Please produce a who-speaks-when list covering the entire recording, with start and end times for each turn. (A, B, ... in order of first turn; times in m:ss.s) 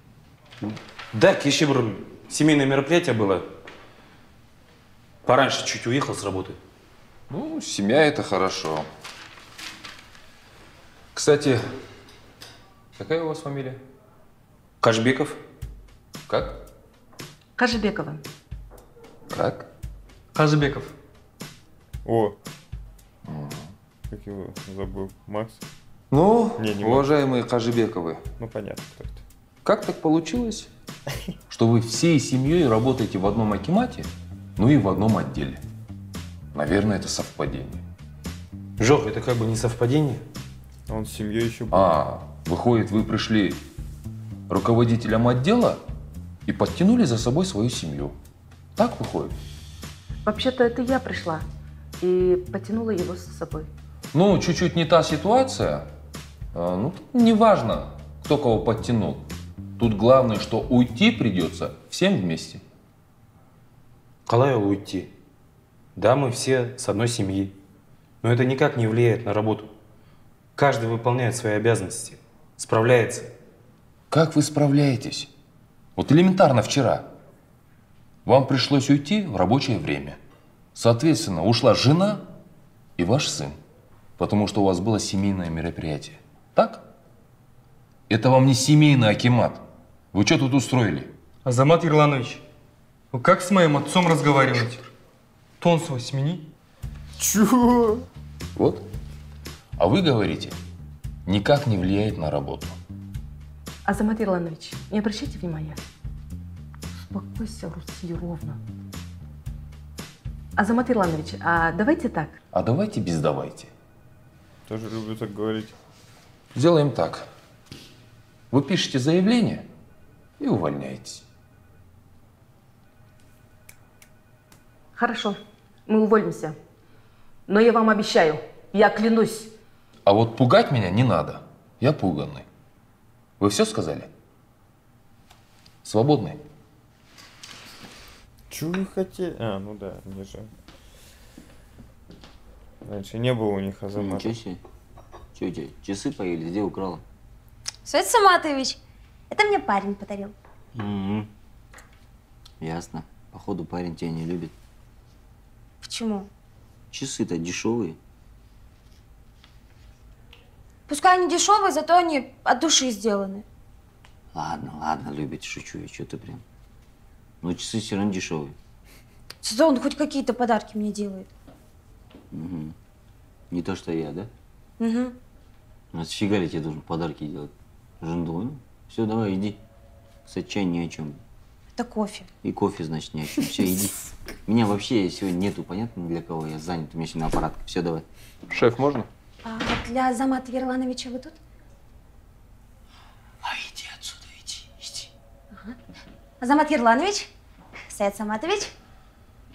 0:01.1-0:03.4 A
0:05.2-0:06.6 A
0:07.3-0:08.9 B
0:11.1-0:11.6 B
0:13.0-0:13.8 B
0:14.8-0:15.4 A
0:16.3-0:16.6 B
0:17.6-0:18.2 C
0:19.3-0:19.7 B
0:20.3-0:21.0 D
0:22.0-0:22.4 E
0:23.2-0:23.7 B
0:24.1-0:25.6 E
0:26.1-0:28.2 B
0:26.6-0:27.1 E
0:28.4-0:29.2 E
0:29.6-0:30.7 B
0:31.5-0:35.6 B
0:36.5-0:37.8 B
0:38.8-0:40.2 A
0:40.9-0:42.0 E
0:41.7-0:43.6 B
0:44.5-0:45.8 B
0:46.5-0:48.2 B
0:48.8-0:49.4 B
0:50.2-0:51.4 C
0:52.0-0:53.7 C
0:54.1-0:55.9 B
0:56.5-1:02.6 B
1:04.2-1:05.1 A
1:06.0-1:07.6 A
1:08.2-1:09.7 A
1:10.6-1:13.3 A
1:14.1-1:15.3 B
1:16.0-1:17.1 B
1:18.2-1:20.2 B
1:20.8-1:22.3 B
1:23.0-1:23.6 B
1:24.2-1:26.8 B
1:28.1-1:31.1 B
1:31.4-1:32.4 D
1:33.1-1:34.8 D
1:35.6-1:36.5 D
1:37.2-1:38.1 E
1:38.6-1:38.8 B
1:39.8-1:40.6 B
1:41.2-1:42.8 B
1:43.8-1:45.8 C
1:47.0-1:48.6 C
1:50.6-1:52.4 C
1:52.5-1:53.7 B
1:54.7-1:55.8 E
1:56.6-1:57.2 B
1:58.5-1:59.7 B
2:00.4-2:01.2 B
2:05.0-2:06.6 C
2:07.5-2:09.5 C
2:10.1-2:12.4 B
2:13.4-2:14.1 B
2:15.8-2:16.4 B
2:18.5-2:20.5 E
2:22.8-2:24.4 E
2:24.0-2:24.6 F
2:25.4-2:27.0 F
2:27.9-2:28.8 G
2:29.3-2:30.3 G
2:30.8-2:31.3 F
2:32.6-2:34.5 F
2:35.8-2:36.3 G
2:36.9-2:38.0 F
2:40.9-2:43.4 G
2:44.3-2:46.4 F
2:47.4-2:48.6 F
2:49.4-2:51.3 G
2:52.3-2:52.7 F
2:53.5-2:54.3 F
2:54.8-2:55.1 G
2:55.9-2:59.6 F
3:00.2-3:01.2 F
3:01.8-3:02.3 G
3:02.4-3:08.0 F
3:08.5-3:09.1 B
3:09.4-3:11.4 G
3:16.4-3:17.3 G
3:17.9-3:18.7 G